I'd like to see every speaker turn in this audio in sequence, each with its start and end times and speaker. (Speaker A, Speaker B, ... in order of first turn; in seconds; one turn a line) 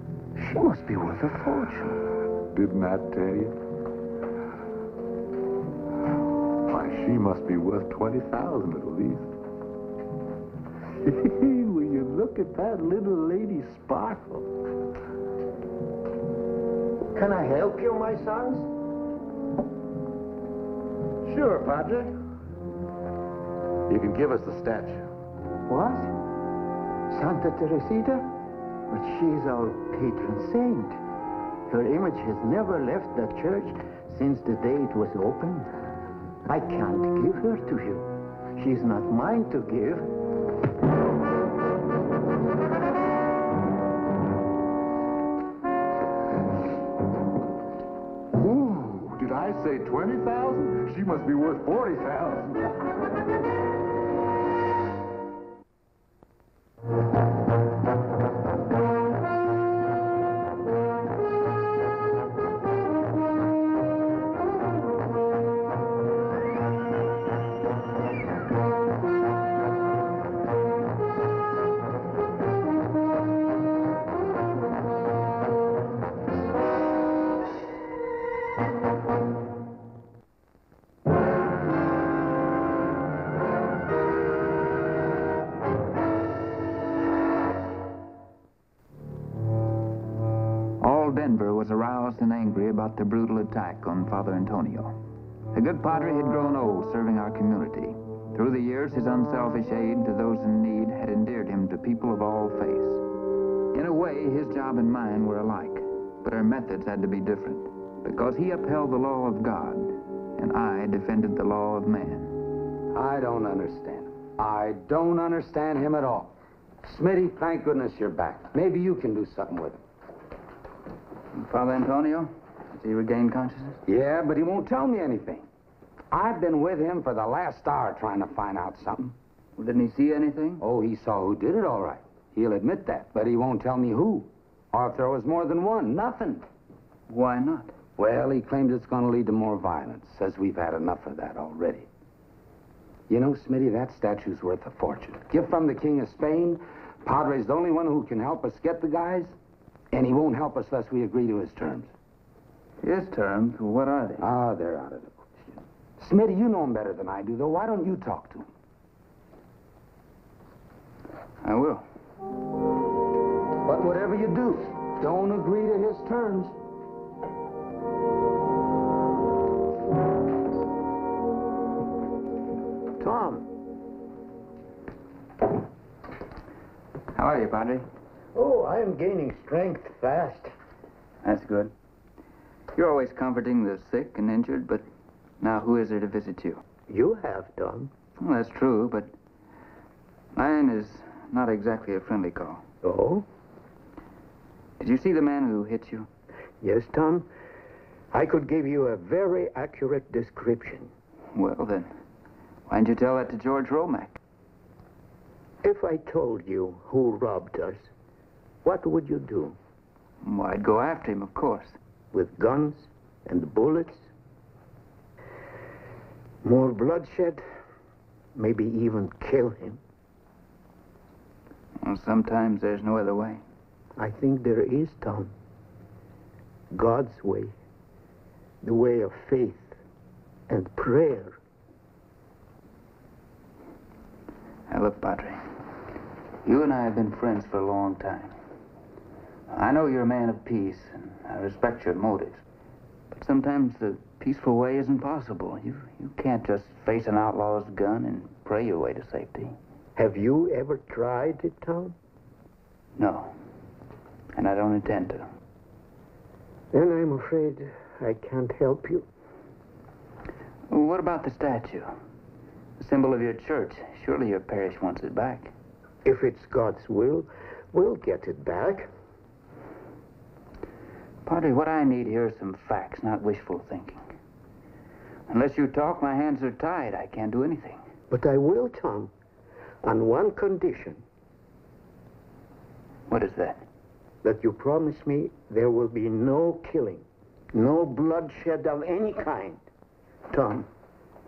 Speaker A: 0.4-2.0
Speaker B: 2.5-3.5
Speaker B: 6.7-9.3
Speaker B: 11.0-14.5
Speaker A: 17.1-18.7
Speaker B: 21.2-22.1
Speaker B: 23.9-25.0
Speaker A: 25.7-26.1
Speaker A: 27.1-28.3
Speaker A: 28.9-31.0
Speaker A: 31.7-35.7
Speaker A: 36.5-40.1
Speaker B: 48.3-52.6
Speaker C: 90.8-95.0
Speaker C: 95.5-103.0
Speaker C: 103.7-112.3
Speaker D: 112.9-116.3
Speaker D: 116.8-119.8
Speaker C: 121.3-123.8
Speaker D: 123.9-125.5
Speaker D: 126.1-129.2
Speaker C: 129.6-130.6
Speaker D: 130.6-136.4
Speaker C: 137.1-137.8
Speaker D: 138.0-141.9
Speaker D: 143.1-149.4
Speaker D: 149.9-151.9
Speaker C: 152.8-154.3
Speaker D: 154.2-155.3
Speaker D: 156.0-158.5
Speaker C: 161.4-161.9
Speaker D: 163.7-166.5
Speaker A: 173.0-173.5
Speaker C: 177.1-177.9
Speaker A: 178.3-180.5
Speaker C: 181.2-181.7
Speaker C: 182.7-184.8
Speaker C: 185.4-186.6
Speaker A: 186.9-187.9
Speaker C: 188.2-189.1
Speaker C: 190.3-192.6
Speaker A: 192.8-193.2
Speaker C: 194.8-196.1
Speaker A: 196.6-197.3
Speaker A: 198.1-200.9
Speaker C: 201.3-201.9
Speaker C: 202.7-204.2
Speaker A: 205.6-207.9
Speaker A: 208.6-209.6
Speaker C: 210.2-211.8
Speaker A: 212.1-214.1
Speaker A: 216.4-217.4
Speaker A: 218.3-219.8
Speaker C: 221.8-223.4
Speaker A: 224.0-225.3
Speaker A: 226.7-227.6
Speaker A: 228.6-229.8
Speaker A: 230.5-231.4
Speaker C: 234.7-235.4
Speaker C: 236.4-238.3
Speaker C: 239.5-242.4
Speaker C: 243.1-249.6
Speaker A: 250.0-252.0
Speaker C: 253.0-253.3
Speaker C: 254.3-255.3
Speaker A: 256.7-259.1
Speaker C: 260.7-261.9
Speaker C: 262.8-265.5
Speaker A: 266.1-268.9
Speaker C: 271.2-274.0
Speaker C: 275.3-277.8
Speaker A: 278.1-279.1
Speaker A: 279.8-281.1
Speaker C: 283.1-283.6
Speaker A: 284.2-289.6
Speaker A: 290.3-290.7